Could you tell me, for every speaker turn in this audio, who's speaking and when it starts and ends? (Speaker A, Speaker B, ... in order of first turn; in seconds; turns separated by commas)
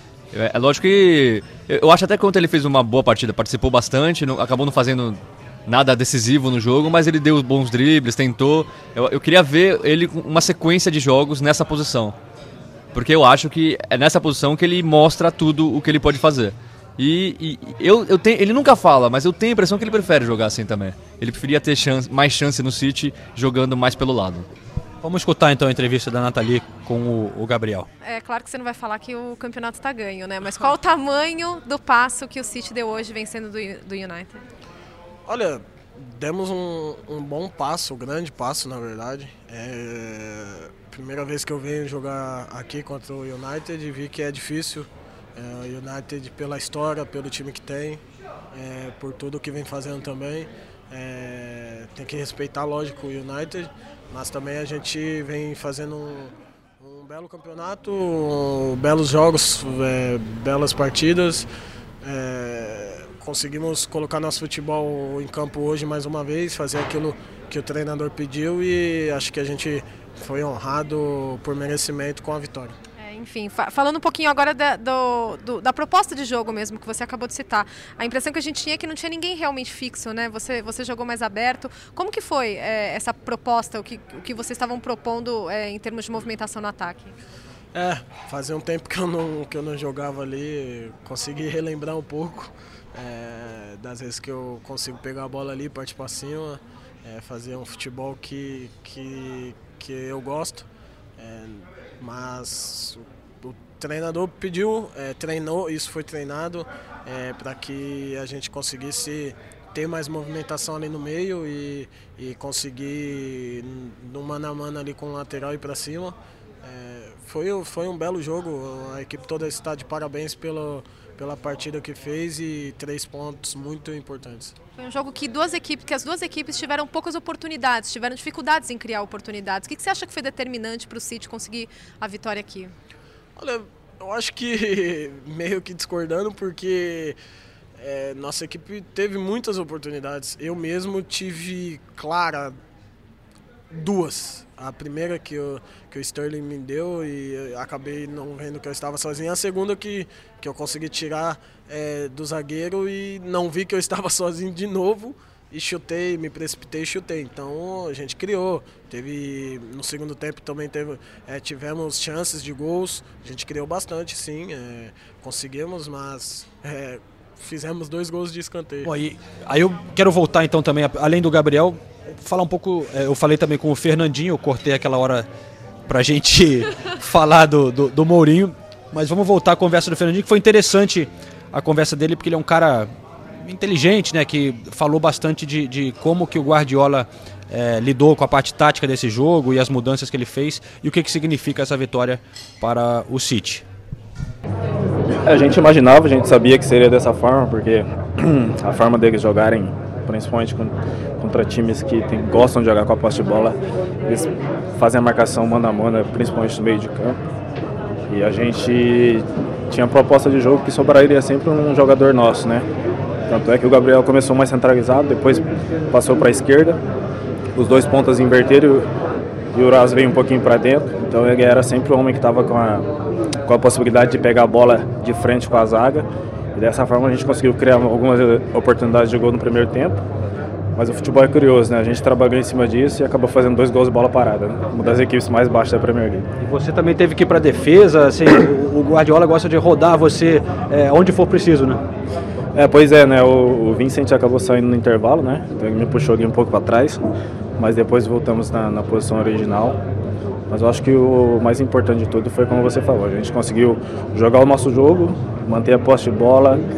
Speaker A: 0.3-12.2, Speaker A: 12.9-24.5, Speaker B: 25.0-27.9, Speaker C: 28.0-34.4, Speaker D: 35.3-48.0, Speaker D: 48.5-61.5, Speaker D: 62.0-72.8, Speaker C: 73.0-87.1, Speaker D: 87.7-100.7, Speaker D: 101.2-124.5, Speaker C: 124.8-132.7, Speaker D: 133.4-137.2, Speaker D: 137.8-142.6, Speaker D: 143.7-168.9, Speaker B: 168.8-175.3, Speaker B: 175.9-193.7, Speaker E: 195.3-207.2, Speaker E: 208.1-212.7, Speaker E: 213.3-216.8, Speaker E: 217.6-218.9, Speaker E: 219.5-222.9, Speaker E: 223.4-230.0, Speaker E: 230.8-236.4, Speaker B: 236.4-241.8, Speaker E: 242.5-247.0, Speaker E: 247.6-249.8, Speaker E: 250.5-256.6